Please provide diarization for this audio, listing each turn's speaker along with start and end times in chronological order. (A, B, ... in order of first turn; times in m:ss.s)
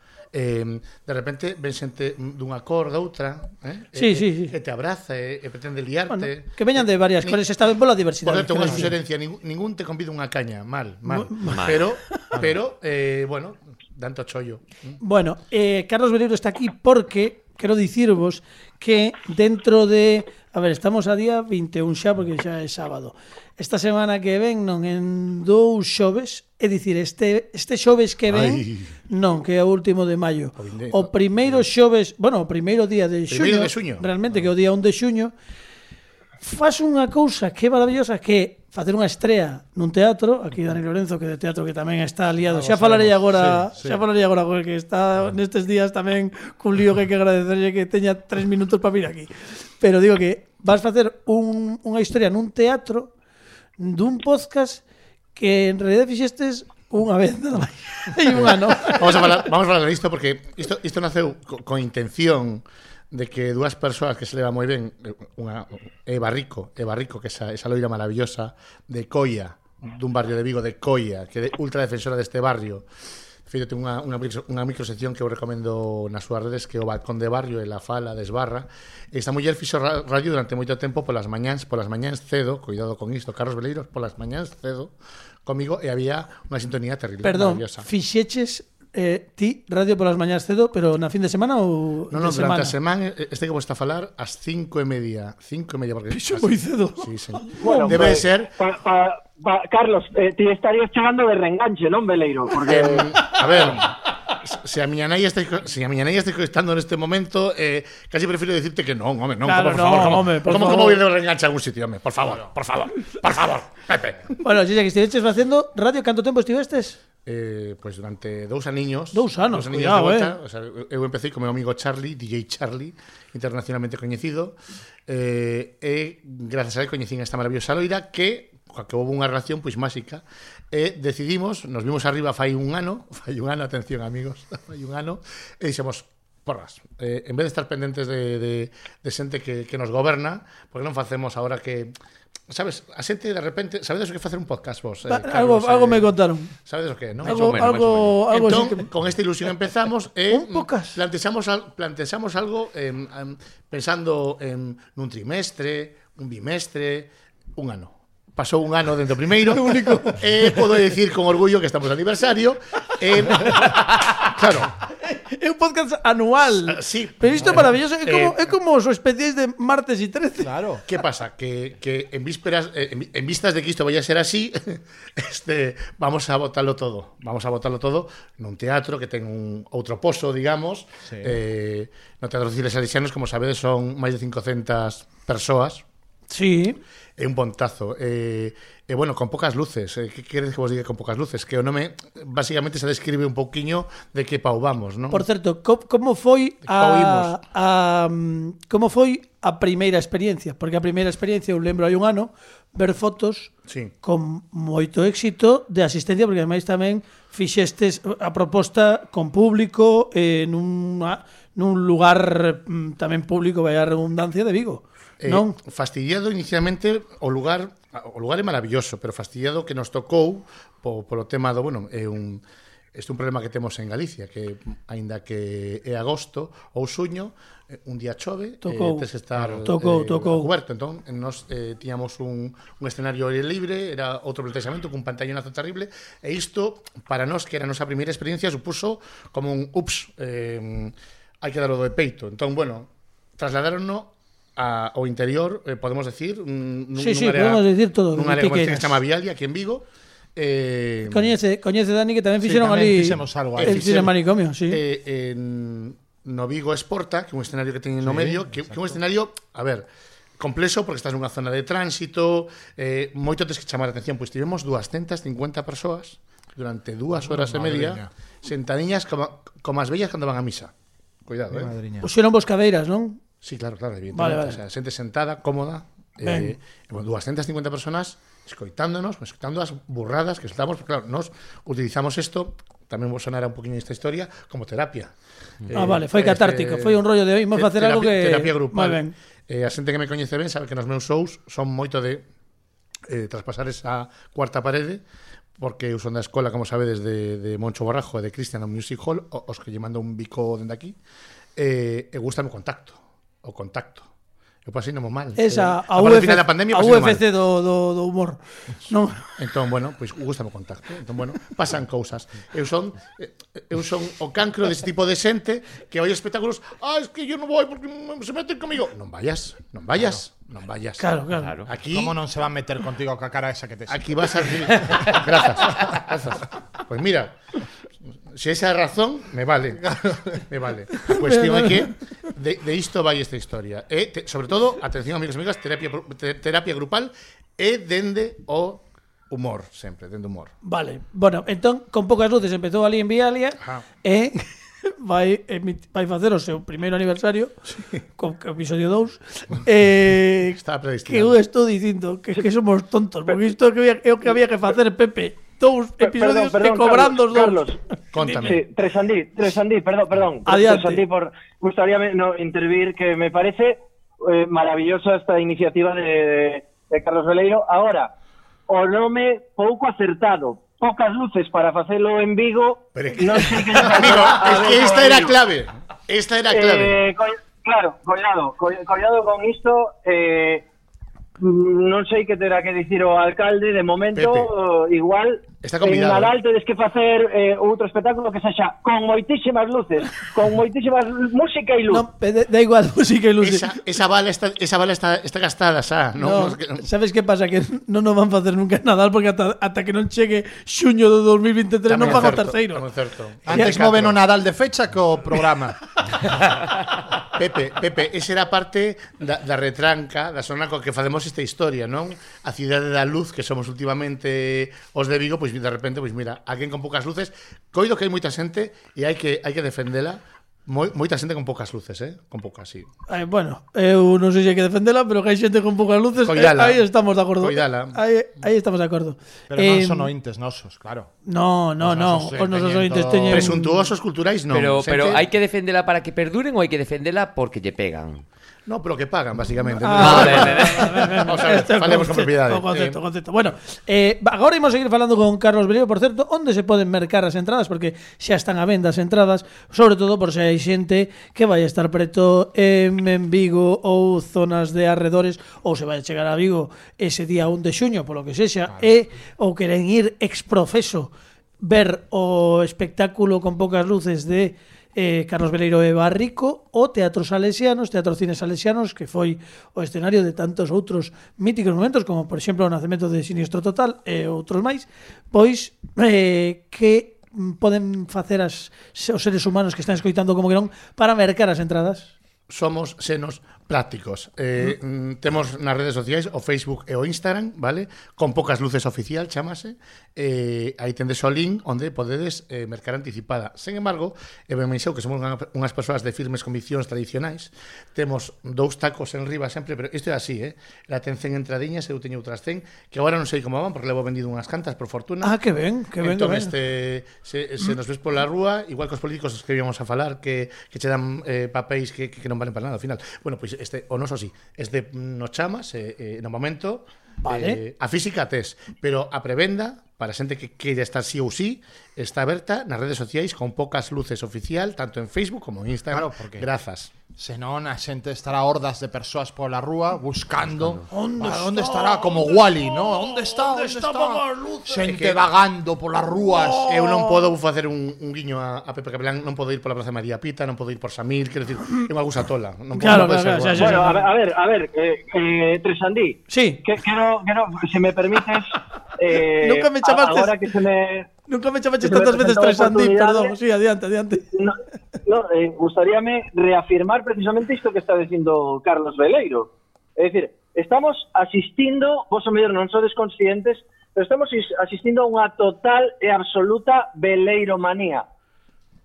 0:00.3-0:07.4 A
0:04.0-0:04.5 B
0:06.1-0:08.9 B
0:08.2-0:15.0 A
0:11.1-0:11.8 B
0:11.5-0:11.8 C
0:15.0-0:35.3 B
0:28.3-0:28.9 A
0:30.6-0:31.6 A
0:33.3-0:34.1 A
0:36.4-0:53.1 B
0:42.5-0:44.0 D
0:53.8-0:54.8 B
0:55.4-0:59.4 B
0:58.3-1:12.9 A
1:13.5-1:24.9 A
1:25.4-1:27.9 A
1:27.2-1:32.7 B
1:32.1-1:38.5 A
1:36.1-1:38.1 B
1:37.6-1:43.2 E
1:42.6-1:43.9 A
1:44.4-1:54.3 A
1:49.4-1:51.0 B
1:54.4-1:57.0 B
1:57.2-2:04.6 A
1:59.1-2:00.3 B
2:05.1-2:21.9 A
2:22.5-2:26.1 A
2:25.1-2:26.5 B
2:26.6-2:44.7 A
2:27.2-2:28.9 B
2:27.3-2:27.6 C
2:30.3-2:31.0 B
2:39.5-2:40.2 B
2:45.1-2:50.5 B
2:46.5-2:48.5 A
2:50.4-2:50.8 D
2:50.9-3:05.8 A
3:01.1-3:01.4 D
3:06.3-3:06.8 B
3:07.2-3:15.2 A
3:15.1-3:23.5 B
3:16.7-3:17.4 A
3:23.7-3:23.9 A
3:24.0-3:35.6 B
3:35.2-3:42.4 A
3:42.9-4:11.3 A
3:48.6-3:49.1 B
3:49.6-3:50.5 B
4:07.0-4:09.0 B
4:11.1-4:14.8 B
4:12.4-4:14.1 D
4:13.6-4:14.1 A
4:14.7-4:19.9 A
4:18.0-4:18.8 D
4:20.4-4:30.7 A
4:27.2-4:28.1 D
4:31.2-4:31.8 A
4:31.5-4:32.1 D
4:32.0-4:33.2 B
4:33.4-4:45.1 A
4:34.1-4:34.6 B
4:36.2-4:36.6 B
4:45.7-4:52.2 A
4:45.7-4:49.1 B
4:53.1-4:55.0 A
4:55.6-5:01.0 A
5:01.6-5:04.1 A
5:04.6-5:07.2 A
5:05.4-5:09.3 B
5:09.4-5:21.1 A
5:21.0-5:21.5 B
5:21.6-5:22.2 A
5:21.9-5:24.7 D
5:23.9-5:27.4 A
5:28.3-5:40.5 A
5:29.8-5:30.4 D
5:31.0-5:31.8 B
5:40.6-5:47.5 B
5:48.2-5:57.6 B
5:50.6-5:51.4 A
5:56.0-5:57.8 E
5:58.1-5:58.6 A
5:58.2-5:58.5 B
5:58.4-6:08.1 E
6:00.5-6:01.0 B
6:08.7-6:15.4 E
6:13.0-6:17.0 A
6:16.5-6:20.6 E
6:21.4-6:32.0 E
6:24.2-6:24.5 A
6:25.6-6:26.3 A
6:31.9-6:33.8 B
6:33.4-6:36.8 A
6:36.2-6:42.9 B
6:41.9-6:44.2 A
6:43.5-6:45.8 D
6:43.5-6:43.8 B
6:47.3-7:02.9 A
7:03.1-7:10.1 B
7:06.2-7:06.9 A
7:07.4-7:08.0 A
7:09.5-7:11.1 D
7:11.3-7:13.7 B
7:11.8-7:13.6 D
7:13.3-7:15.2 A
7:14.5-7:18.2 C
7:18.7-7:23.0 A
7:19.8-8:02.1 B
7:20.0-7:21.1 C
7:20.0-7:20.4 D
8:02.5-8:25.4 A
8:25.2-8:26.5 B
8:26.0-8:46.9 A
8:37.2-8:37.6 B
8:45.9-8:46.5 D
8:47.2-8:56.7 D
8:50.9-8:55.0 B
8:54.8-8:55.3 A
8:56.2-8:57.2 B
8:56.6-9:03.9 A
9:02.8-9:04.0 B
9:03.6-9:11.1 E
9:06.3-9:06.6 B
9:09.4-9:10.3 B
9:11.3-9:14.2 B
9:11.8-9:13.3 E
9:14.4-9:28.0 E